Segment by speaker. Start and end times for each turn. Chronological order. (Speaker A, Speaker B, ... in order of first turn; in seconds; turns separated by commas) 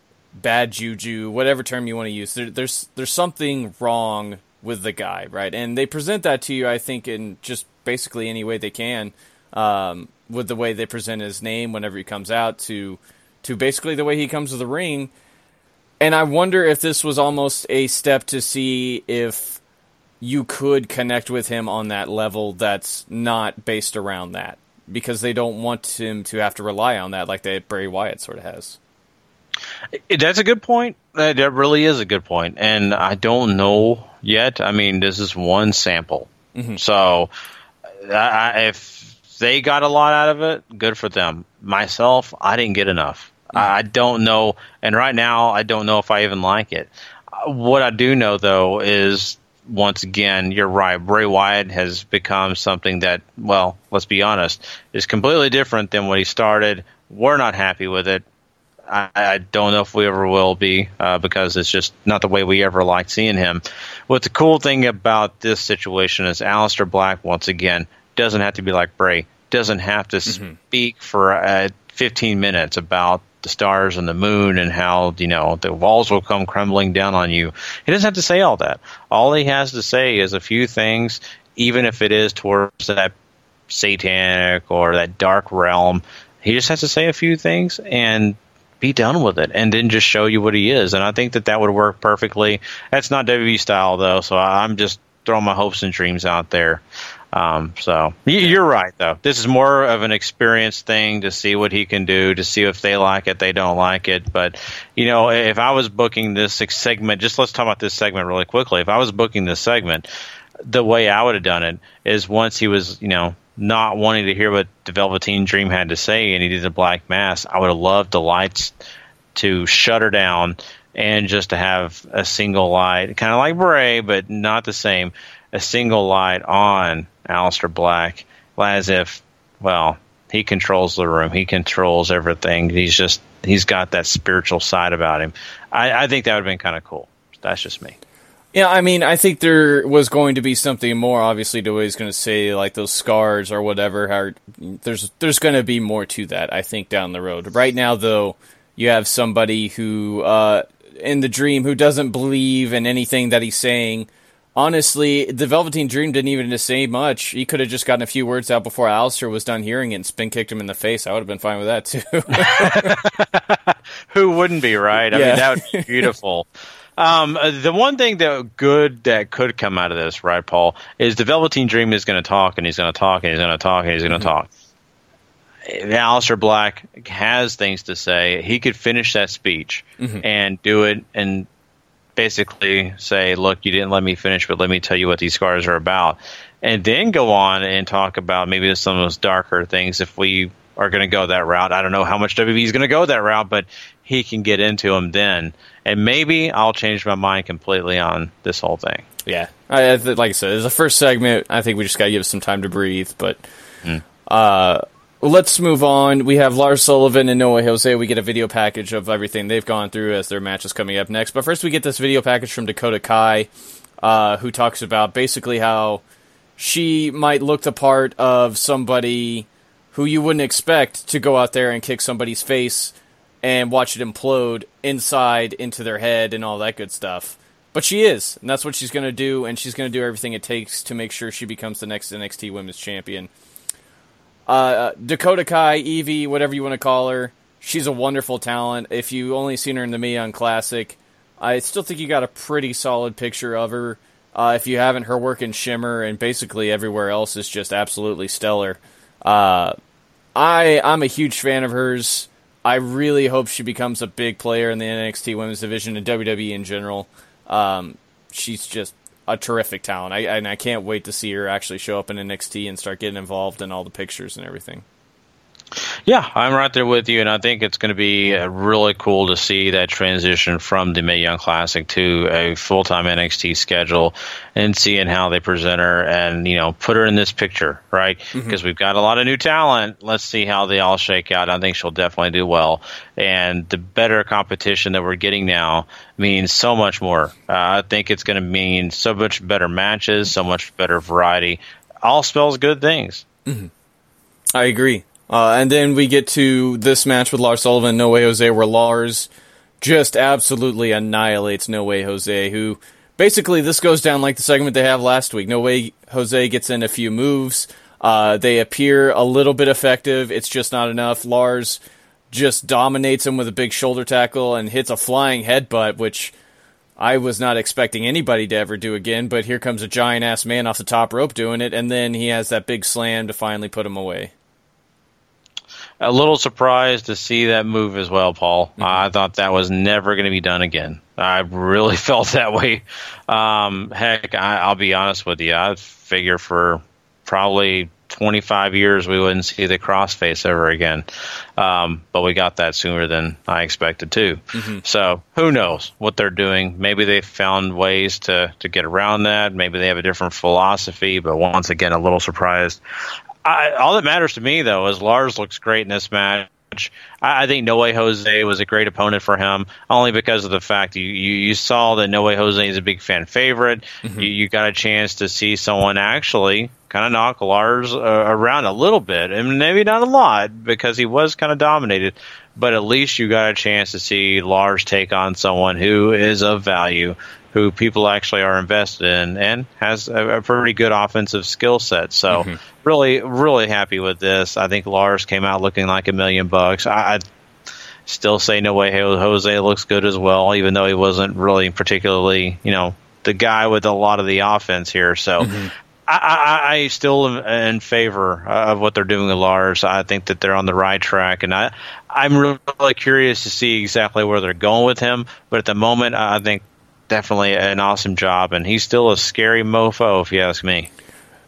Speaker A: 0.3-15.1, Speaker A: 16.0-19.6, Speaker A: 20.2-28.8, Speaker B: 29.9-37.3, Speaker A: 36.5-36.8, Speaker B: 38.0-58.2, Speaker B: 58.9-83.1, Speaker A: 70.3-70.6, Speaker B: 83.7-96.8, Speaker B: 97.3-110.1, Speaker B: 110.6-118.7, Speaker B: 119.3-138.0, Speaker A: 138.5-163.0, Speaker B: 162.3-166.4, Speaker A: 165.1-166.1, Speaker B: 167.0-174.5, Speaker B: 175.6-181.5, Speaker A: 180.0-180.2, Speaker B: 182.2-199.1, Speaker A: 199.2-203.4, Speaker A: 204.2-213.5, Speaker A: 214.0-216.0, Speaker A: 216.6-233.3, Speaker A: 234.5-249.7, Speaker A: 250.3-264.8, Speaker B: 266.1-293.2, Speaker A: 278.3-278.6, Speaker A: 293.4-293.7, Speaker A: 294.5-299.3, Speaker A: 299.8-311.8, Speaker A: 312.3-316.3, Speaker A: 317.0-324.3, Speaker B: 326.0-341.1, Speaker B: 341.6-352.8, Speaker A: 344.5-344.8, Speaker B: 353.4-387.2, Speaker A: 364.0-364.3, Speaker A: 382.3-382.6, Speaker B: 388.1-410.9, Speaker A: 395.4-395.7